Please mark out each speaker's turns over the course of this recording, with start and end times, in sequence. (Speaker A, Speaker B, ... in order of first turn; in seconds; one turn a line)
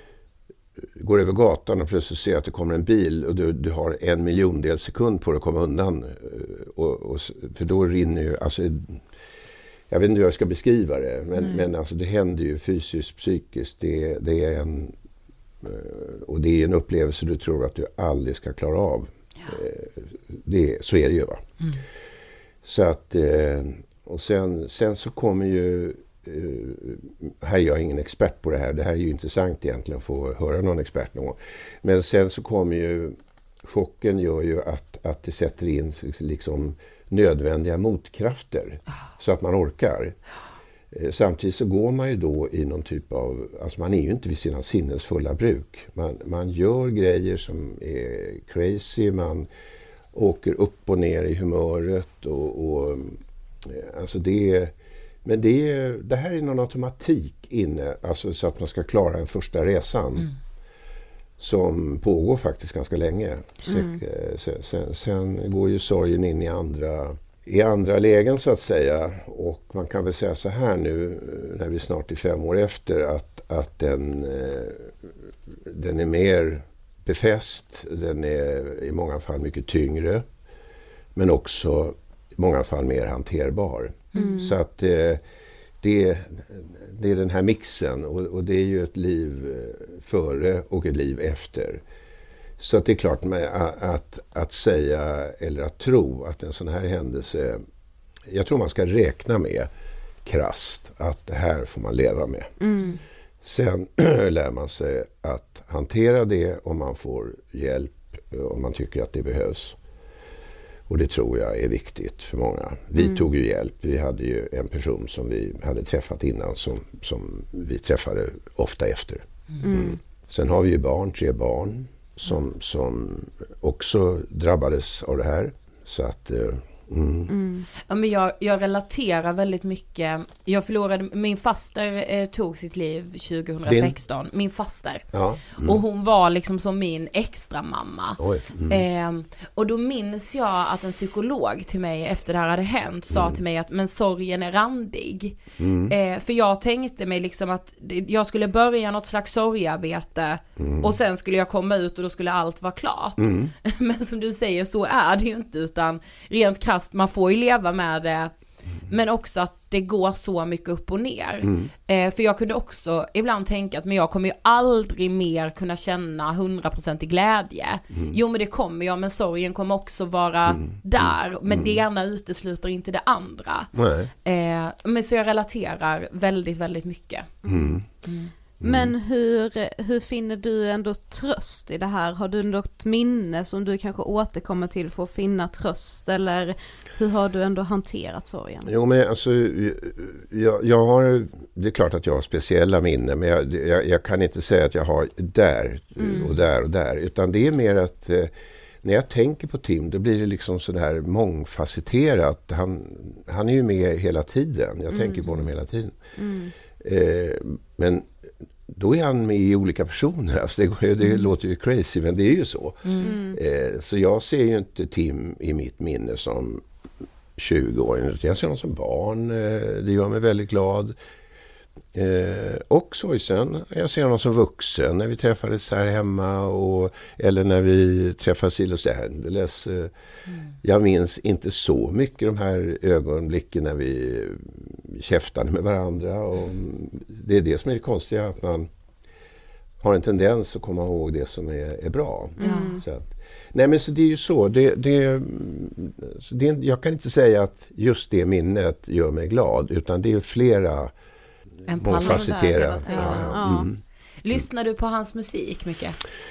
Speaker A: 1.0-9.0
Speaker A: 9.9-14.9
Speaker A: 15.6-21.4
Speaker A: 22.6-40.1
Speaker A: 40.9-49.5
Speaker A: 50.1-54.7
Speaker A: 55.2-60.3
Speaker A: 61.4-75.0
Speaker B: 63.6-64.0
Speaker A: 75.6-80.2
Speaker A: 81.1-85.2
Speaker B: 84.1-84.6
Speaker A: 85.8-91.8
Speaker A: 92.6-97.6
Speaker A: 98.3-99.7
Speaker A: 100.2-102.5
Speaker B: 102.6-103.0
Speaker A: 103.4-109.8
Speaker A: 110.9-127.3
Speaker B: 119.6-120.0
Speaker B: 127.3-127.7
Speaker C: 127.9-158.3
Speaker A: 133.7-134.0
Speaker A: 135.1-135.8
Speaker A: 138.2-138.8
Speaker A: 143.1-143.4
Speaker A: 145.6-145.9
Speaker A: 150.6-150.9
Speaker A: 153.2-153.5
Speaker C: 158.9-173.7
Speaker A: 161.4-161.7
Speaker A: 170.5-171.8
Speaker A: 173.8-174.1
Speaker C: 174.2-177.3
Speaker B: 177.4-177.8
Speaker A: 177.4-177.8
Speaker C: 178.1-178.3
Speaker A: 178.6-178.9
Speaker B: 178.6-188.7
Speaker A: 188.6-198.3
Speaker B: 196.0-196.4
Speaker A: 198.8-206.0
Speaker B: 204.9-205.4
Speaker B: 206.2-206.5
Speaker A: 206.8-208.1
Speaker A: 208.7-216.6
Speaker B: 213.0-213.4
Speaker A: 217.4-220.9
Speaker A: 221.9-229.9
Speaker A: 230.6-238.7
Speaker A: 239.8-250.9
Speaker B: 242.4-242.8
Speaker C: 251.7-253.4
Speaker A: 251.8-253.8
Speaker B: 251.8-253.7
Speaker C: 254.2-256.0